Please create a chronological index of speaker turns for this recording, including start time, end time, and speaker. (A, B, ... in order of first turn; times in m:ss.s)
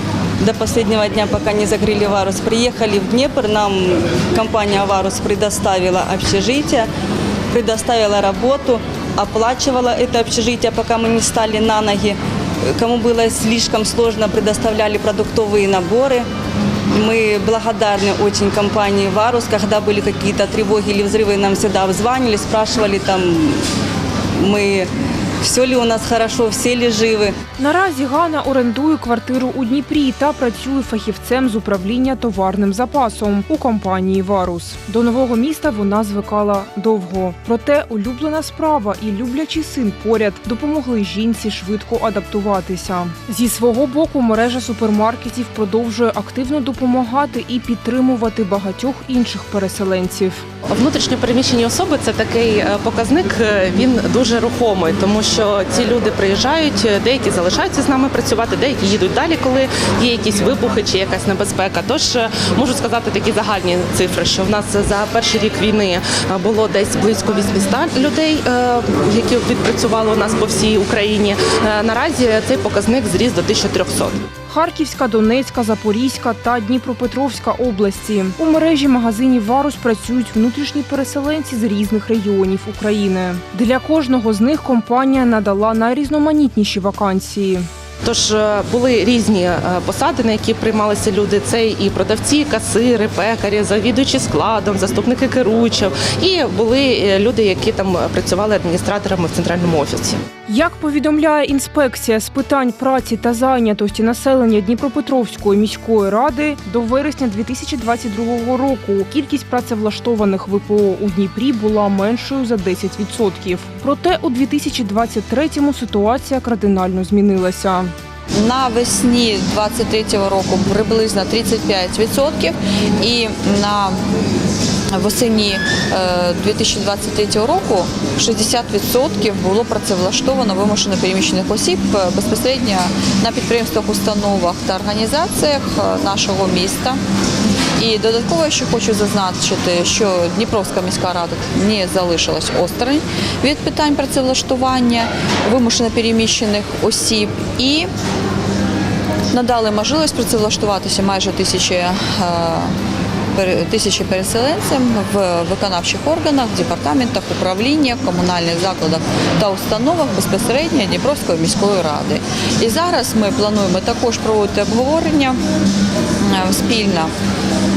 0:00.4-0:06.9 A
0:07.5-0:16.2 A
0:16.9-0:23.6 A
0:24.4-0:24.9 A
0:25.4-0:27.3 A
0:27.6-0:50.4 B
0:50.7-1:14.2 C
1:14.5-1:27.7 B
1:28.0-1:40.2 C
1:40.5-1:57.9 B
1:58.4-2:04.0 D
2:04.9-2:17.0 D
2:17.8-2:27.9 D
2:29.3-2:32.7 D
2:33.3-2:45.4 D
2:46.2-2:47.1 D